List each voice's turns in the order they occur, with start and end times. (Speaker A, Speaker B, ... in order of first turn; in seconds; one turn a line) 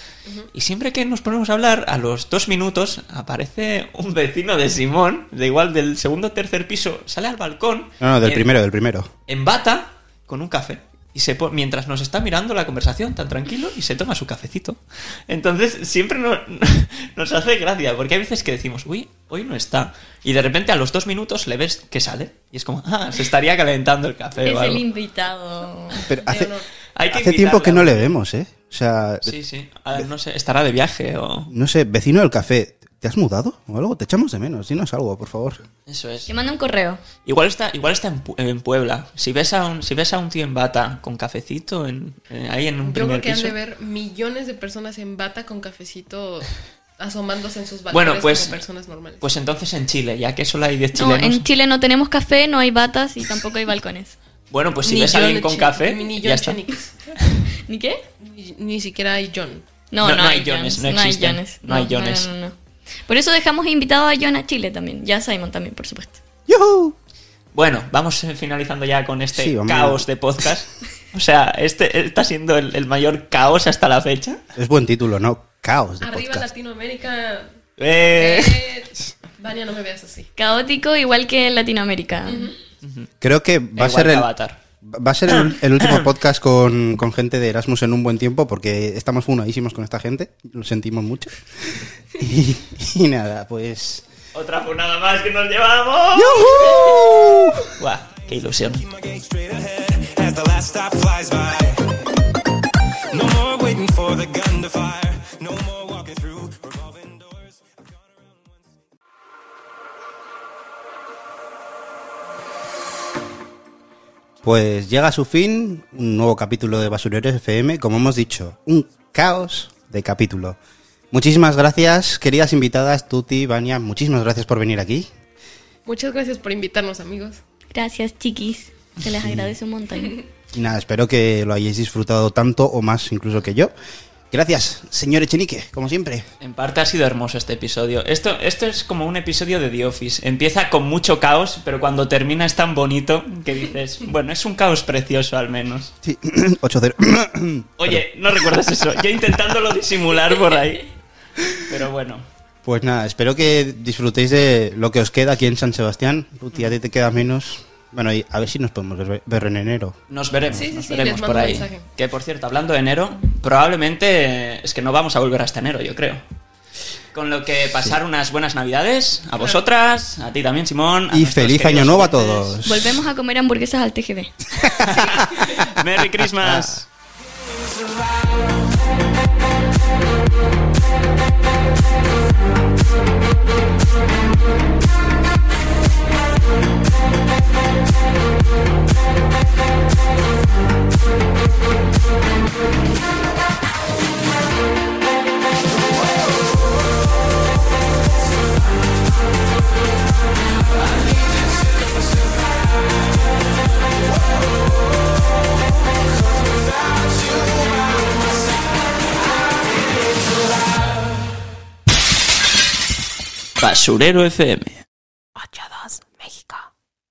Speaker A: 0.5-8.5
Speaker B: 8.0-9.1
Speaker A: 9.3-24.8
Speaker C: 24.4-26.1
Speaker B: 26.1-26.5
Speaker D: 26.1-26.6
Speaker A: 26.9-28.1
Speaker B: 27.1-29.4
Speaker A: 29.2-31.5
Speaker B: 31.5-35.6
Speaker A: 35.9-36.3
Speaker C: 36.3-37.0
Speaker A: 37.2-43.5
Speaker D: 42.8-49.2
Speaker A: 47.9-48.6
Speaker A: 49.2-51.5
Speaker C: 50.9-54.2
Speaker A: 54.5-56.6
Speaker D: 54.8-56.9
Speaker C: 57.6-58.0
Speaker D: 58.2-59.6
Speaker C: 59.9-62.5
Speaker A: 60.0-62.3
Speaker C: 63.1-66.2
Speaker B: 66.5-67.0
Speaker A: 67.5-74.4
Speaker B: 69.3-70.1
Speaker B: 74.5-76.5
Speaker D: 76.0-77.5
Speaker A: 77.8-78.6
Speaker D: 78.1-80.3
Speaker C: 80.4-82.5
Speaker D: 82.2-82.5
Speaker A: 82.8-83.1
Speaker B: 83.2-84.3
Speaker A: 83.8-84.6
Speaker B: 84.8-91.4
Speaker A: 85.3-86.0
Speaker B: 92.2-94.0
Speaker A: 94.3-96.9
Speaker B: 96.1-97.7
Speaker A: 97.8-98.8
Speaker E: 98.3-101.9
Speaker E: 103.1-108.7
Speaker B: 114.4-120.6
Speaker B: 121.1-125.1
Speaker D: 125.8-127.4
Speaker C: 127.7-130.2
Speaker B: 129.2-129.5
Speaker D: 129.9-130.2
Speaker B: 130.5-133.7
Speaker B: 134.3-136.3
Speaker A: 136.4-145.9
Speaker B: 146.0-148.0
Speaker A: 147.8-150.9
Speaker A: 151.6-152.2
Speaker B: 152.6-160.6
Speaker A: 160.1-166.2
Speaker D: 160.5-161.8
Speaker A: 167.1-172.6
Speaker B: 171.1-173.0
Speaker C: 172.6-174.7
Speaker A: 174.8-176.8
Speaker B: 176.2-176.8
Speaker A: 213.6-214.8
Speaker C: 215.4-216.5